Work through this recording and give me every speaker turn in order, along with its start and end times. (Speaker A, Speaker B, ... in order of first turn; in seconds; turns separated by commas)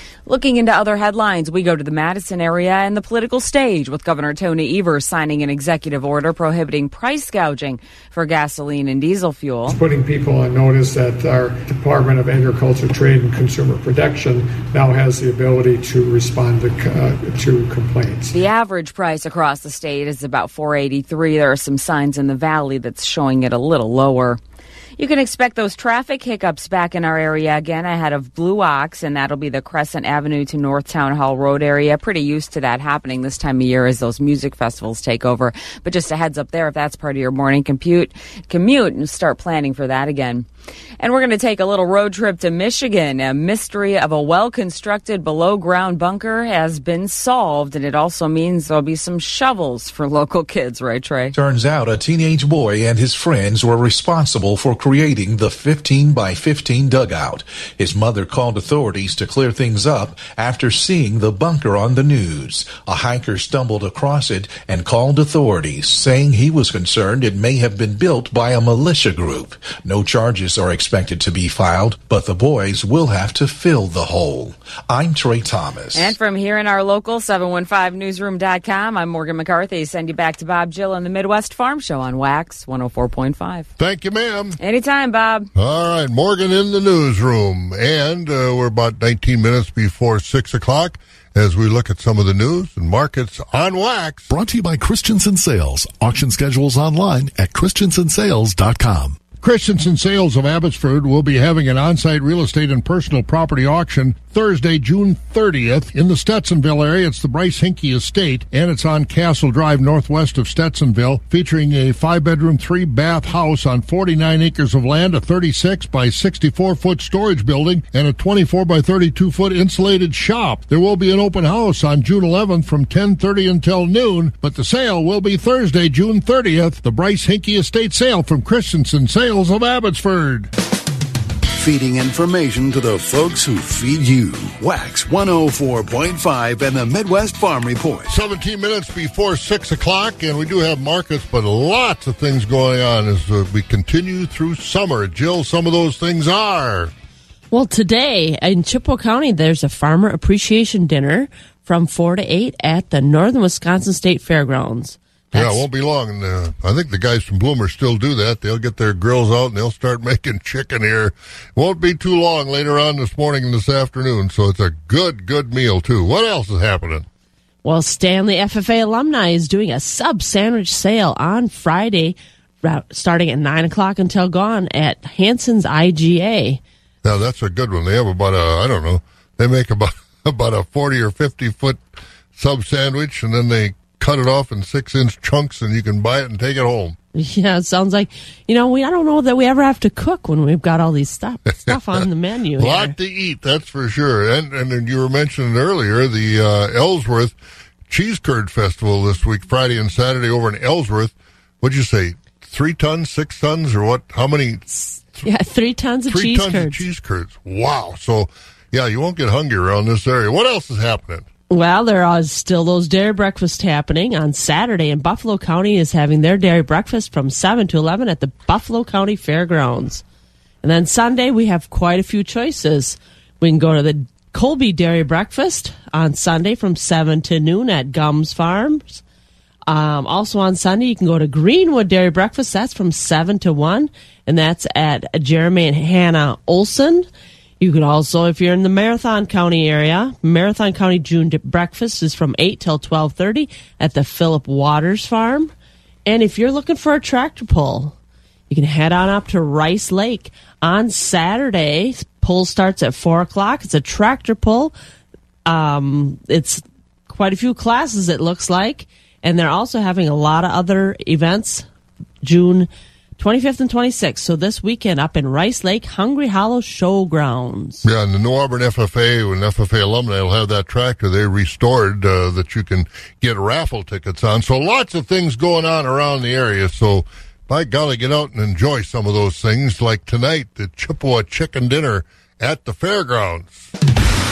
Speaker A: 0.3-9.7, Speaker B: 9.7-18.4, Speaker A: 18.3-24.4, Speaker A: 25.0-40.5, Speaker A: 41.0-51.4, Speaker C: 51.3-76.1, Speaker A: 76.0-83.7, Speaker D: 83.8-84.6, Speaker A: 84.6-85.5, Speaker D: 85.6-94.3, Speaker E: 94.3-99.2, Speaker D: 99.4-130.5, Speaker F: 131.6-138.1, Speaker D: 138.1-146.9, Speaker G: 147.5-155.7, Speaker D: 155.3-167.1, Speaker G: 167.6-176.6, Speaker D: 177.0-181.8, Speaker D: 182.3-187.0, Speaker G: 187.2-192.9, Speaker D: 191.7-192.0, Speaker D: 192.6-197.3, Speaker D: 197.9-205.2, Speaker G: 204.8-206.8, Speaker D: 206.1-211.3, Speaker G: 211.5-220.0, Speaker G: 220.6-229.0, Speaker G: 229.7-237.1, Speaker G: 237.6-245.5, Speaker G: 246.1-247.9, Speaker G: 248.5-254.7, Speaker G: 255.5-261.7, Speaker G: 262.2-267.9, Speaker D: 267.8-283.7